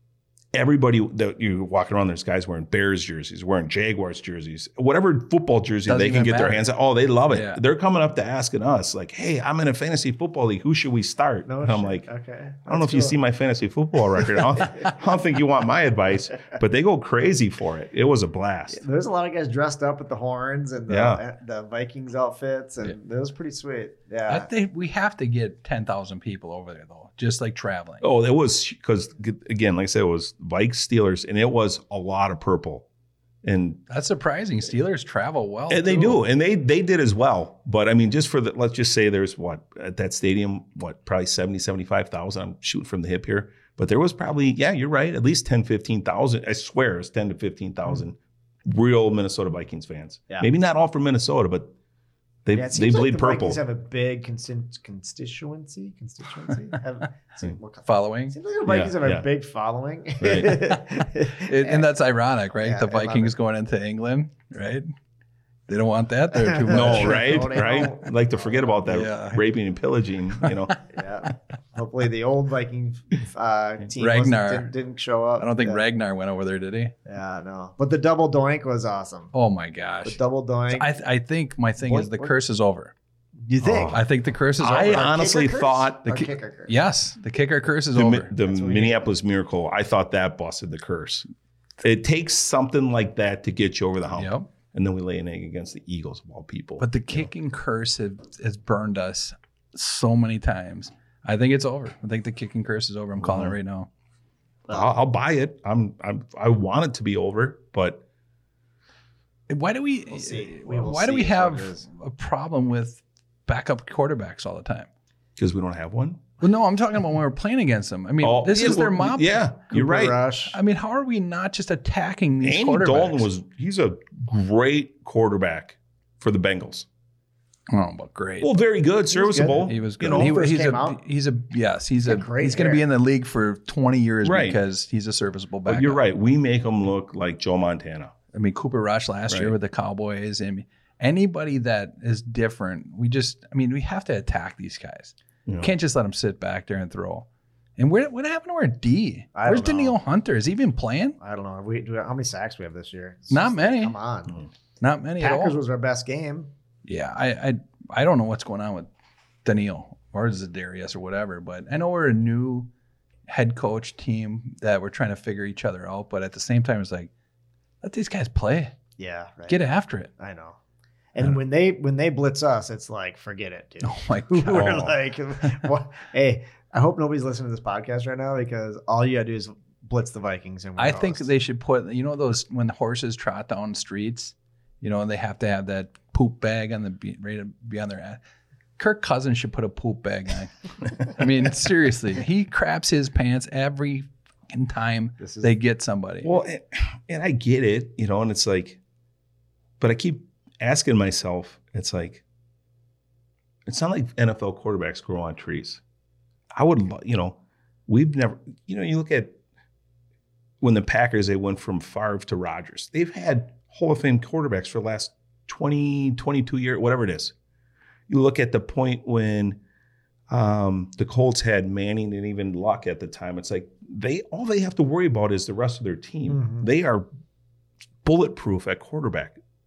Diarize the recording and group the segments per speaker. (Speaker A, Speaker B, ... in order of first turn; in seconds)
Speaker A: 0.5-12.1, 12.7-18.8, 20.9-21.2, 28.0-32.9, 33.4-33.8, 35.7-51.7, 52.4-53.6, 58.6-59.2, 60.2-60.7, 66.7-70.7, 83.6-84.0, 84.6-86.2, 87.9-91.3, 91.8-97.3, 103.2-103.5, 104.7-108.0, 115.4-116.3, 118.2-120.2, 122.4-126.8, 128.4-130.3, 134.2-134.6, 135.7-138.1, 139.3-139.5, 145.4-145.7, 174.5-174.9, 196.2-198.8, 199.8-202.2, 203.7-205.8, 206.5-209.4, 210.6-217.3, 218.1-219.6, 220.3-227.1, 228.0-229.4
Speaker B: 5.8-6.7, 7.3-7.6, 24.3-28.0, 33.9-36.2, 57.9-58.3, 61.2-64.9, 65.7-67.8, 68.8-69.4, 70.4-70.7, 74.0-74.7, 75.4-76.9, 79.3-82.9, 83.9-85.1, 86.1-88.3, 94.1-94.5, 96.8-103.9, 109.5-114.9, 116.4-119.5, 120.5-123.3, 127.7-128.6, 129.6-136.0, 138.3-151.2, 153.3-153.9, 154.8-155.6, 156.8-158.9, 159.4-162.7, 163.3-167.1, 167.8-168.8, 169.5-170.1, 173.8-174.8, 180.8-188.2, 188.8-196.3
Speaker C: 11.5-13.2, 14.7-14.9, 18.7-24.5, 52.5-61.9, 62.6-63.3, 66.3-68.8, 70.9-75.8, 77.0-79.3, 80.0-80.9, 81.8-82.3, 83.4-84.0, 84.6-86.7, 88.4-89.1, 110.1-111.9, 119.7-120.5, 129.1-131.0, 132.0-132.8, 149.3-150.0, 151.2-154.4, 155.2-156.5, 169.0-169.6, 170.2-170.6, 171.1-181.3, 195.2-195.5, 226.3-226.7